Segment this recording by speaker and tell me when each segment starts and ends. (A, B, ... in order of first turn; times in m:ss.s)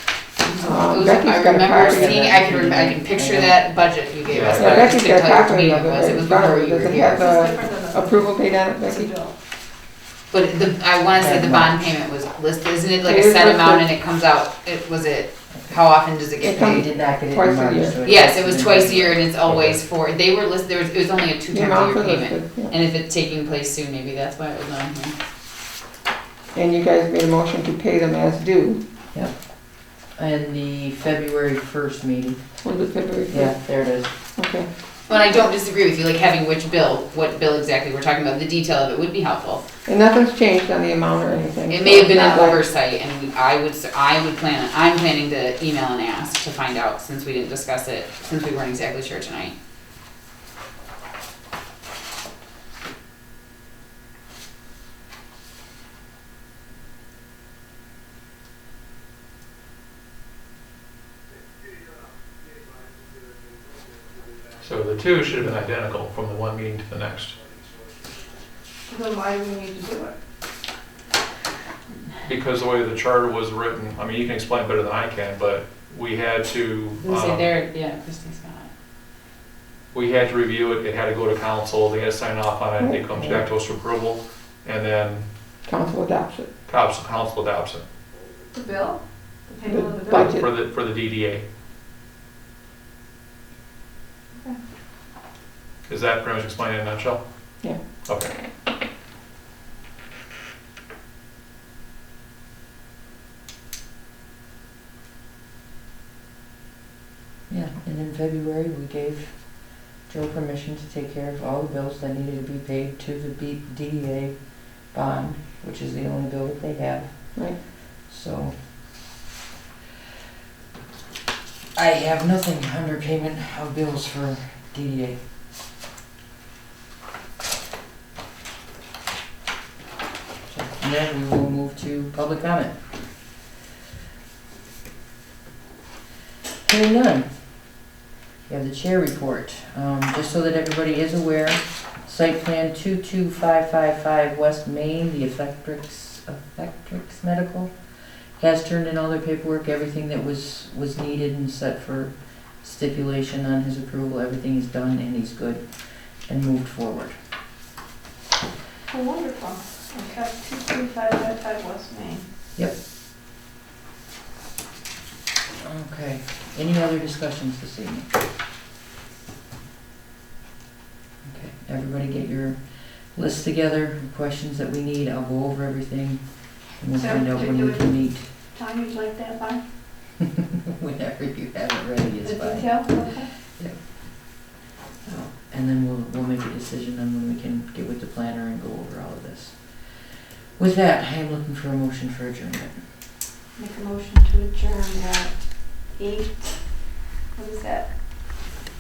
0:00.4-0:07.3 A
0:00.6-0:02.2 B
0:01.7-0:03.6 C
0:04.3-0:05.0 D
0:04.6-0:09.1 B
0:07.1-0:09.3 E
0:10.3-0:16.8 A
0:11.1-0:11.8 C
0:13.0-0:13.9 B
0:15.5-0:15.8 C
0:16.4-0:18.0 B
0:16.5-0:19.5 C
0:18.0-0:25.2 A
0:19.4-0:19.8 D
0:21.5-0:22.7 B
0:26.5-0:28.8 B
0:29.1-0:32.6 C
0:32.6-0:33.6 B
0:33.3-0:34.2 C
0:34.4-0:34.7 B
0:35.1-0:39.6 A
0:39.9-0:42.6 B
0:41.7-0:49.5 A
1:04.6-1:07.4 D
1:08.9-1:10.2 E
1:12.2-1:17.5 D
1:17.0-1:18.7 A
1:19.9-1:25.2 D
1:22.8-1:23.4 B
1:23.1-1:23.4 C
1:25.6-1:26.5 B
1:26.7-1:27.8 D
1:28.5-1:30.4 E
1:29.7-1:30.4 B
1:30.2-1:31.4 D
1:35.9-1:37.2 D
1:38.0-1:38.3 D
1:47.5-1:58.9 C
2:01.8-2:05.2 C
2:10.5-2:13.0 C
2:16.6-2:17.8 C
2:18.5-2:37.2 C
2:38.9-2:42.2 E
2:45.6-2:48.1 C
2:51.2-2:58.3 C
2:56.9-2:59.6 E
3:00.7-3:04.4 C
3:02.2-3:03.3 E
3:05.0-3:12.9 C
3:13.6-3:18.6 E